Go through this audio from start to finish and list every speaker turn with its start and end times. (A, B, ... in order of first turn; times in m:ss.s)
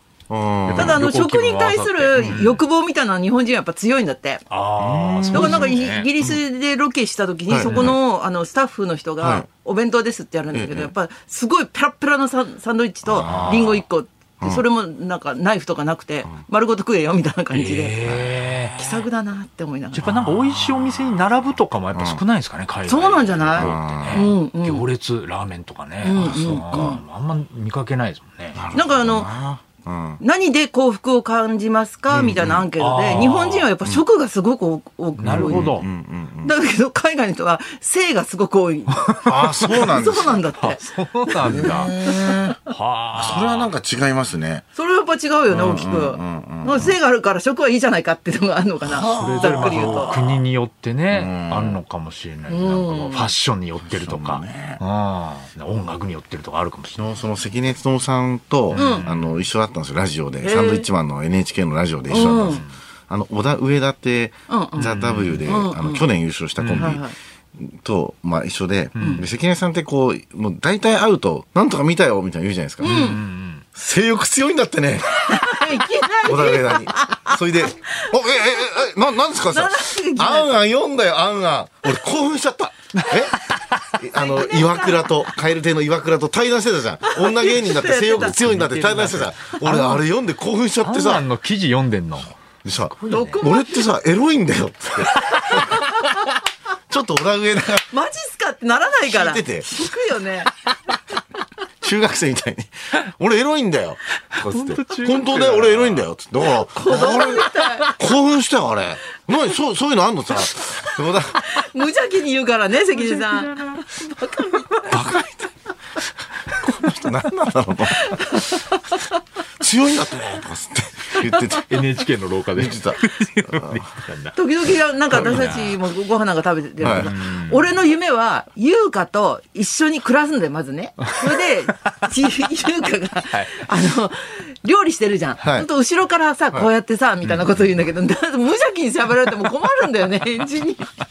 0:00.3-0:01.0 A
0:00.7-0:02.6 B
0:00.7-0:04.5 C
0:04.5-0:06.1 B
0:04.8-0:06.4 A
0:05.3-0:18.0 C
0:07.5-0:08.0 A
0:07.6-0:08.0 B
0:09.2-0:09.5 A
0:10.5-0:10.9 A
0:13.1-0:13.8 A
0:13.2-0:13.8 B
0:17.5-0:19.0 B
0:18.0-0:18.4 A
0:18.8-0:20.0 C
0:19.9-0:28.6 B
0:21.9-0:22.2 A
0:22.9-0:24.9 C
0:23.5-0:24.3 A
0:26.0-0:27.0 C
0:26.2-0:27.0 A
0:28.6-0:30.2 A
0:28.7-0:29.3 C
0:30.2-0:35.8 C
0:32.1-0:32.7 A
0:32.8-0:33.7 B
0:35.2-0:35.8 B
0:35.2-0:36.5 A
0:36.4-0:42.6 C
0:39.0-0:39.8 B
0:39.2-0:40.5 A
0:40.5-0:42.0 B
0:41.4-0:42.5 A
0:42.6-0:43.7 B
0:43.1-0:44.7 A
0:44.8-0:50.2 C
0:45.5-0:46.9 A
0:48.8-0:50.4 A
0:49.1-0:57.0 B
0:51.1-0:51.8 A
0:52.5-0:53.3 C
0:53.8-0:54.8 A
0:57.0-1:13.2 A
0:58.7-0:59.5 B
0:58.7-0:59.0 C
1:00.4-1:00.9 C
1:02.1-1:02.6 C
1:02.1-1:02.7 B
1:04.5-1:06.1 C
1:04.8-1:05.5 B
1:06.6-1:07.0 B
1:06.8-1:07.2 C
1:09.0-1:09.3 B
1:12.8-1:13.6 B
1:12.8-1:13.2 C
1:13.8-1:15.6 A
1:15.2-1:18.1 C
1:16.2-1:23.4 A
1:19.5-1:20.6 C
1:23.0-1:23.8 B
1:23.9-1:31.3 A
1:24.2-1:25.1 C
1:27.1-1:28.4 C
1:28.2-1:30.0 B
1:30.8-1:33.5 B
1:32.6-1:35.9 A
1:33.1-1:33.8 C
1:35.3-1:35.9 C
1:36.9-1:37.9 A
1:37.9-1:40.5 C
1:39.0-1:39.7 A
1:41.8-1:51.6 A
1:44.4-1:46.1 B
1:46.5-1:48.0 C
1:51.5-1:55.2 C
1:52.9-1:53.9 B
1:54.8-1:55.1 B
1:54.9-1:55.4 A
1:56.5-1:58.6 A
1:58.0-1:59.0 C
1:59.6-2:01.9 A
2:01.6-2:04.4 B
2:02.5-2:03.9 A
2:04.4-2:20.9 C
2:05.1-2:05.8 B
2:05.1-2:05.5 A
2:06.8-2:07.1 A
2:06.9-2:07.7 B
2:13.3-2:13.7 B
2:15.4-2:15.7 A